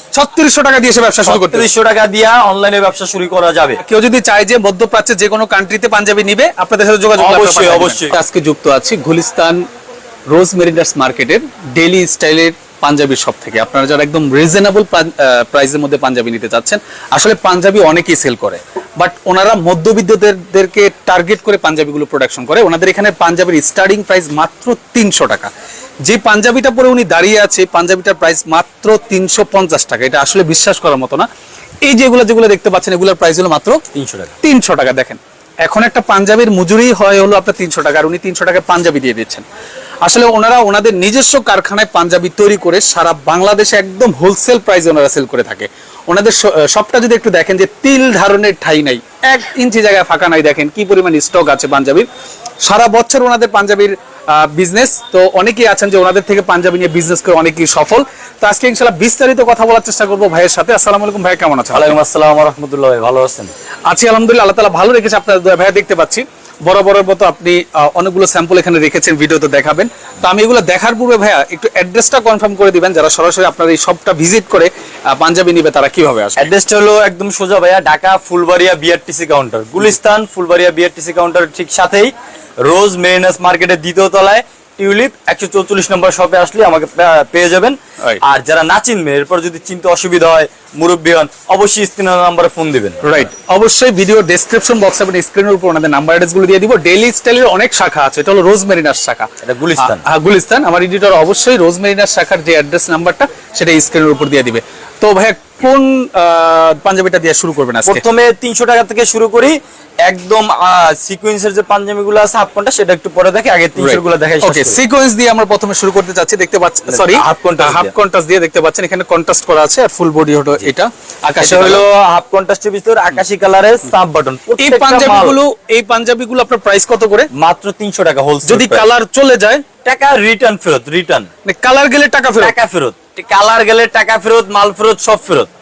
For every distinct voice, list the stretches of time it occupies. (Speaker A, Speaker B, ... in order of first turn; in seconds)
Speaker A: 0.1-1.7, 3.8-9.6, 10.3-25.5, 26.0-31.2, 31.8-33.8, 34.4-39.4, 40.0-52.1, 52.6-61.9, 63.9-76.5, 93.0-99.3, 99.8-108.0, 113.8-121.8, 124.6-127.3, 128.4-129.6, 131.4-132.6
Speaker B: 1.2-3.8, 7.2-8.2, 33.9-34.3, 61.7-63.5, 76.4-93.2, 99.4-100.0, 107.9-114.8, 116.9-117.9, 121.4-125.4, 127.3-128.8, 129.8-131.3, 132.4-135.5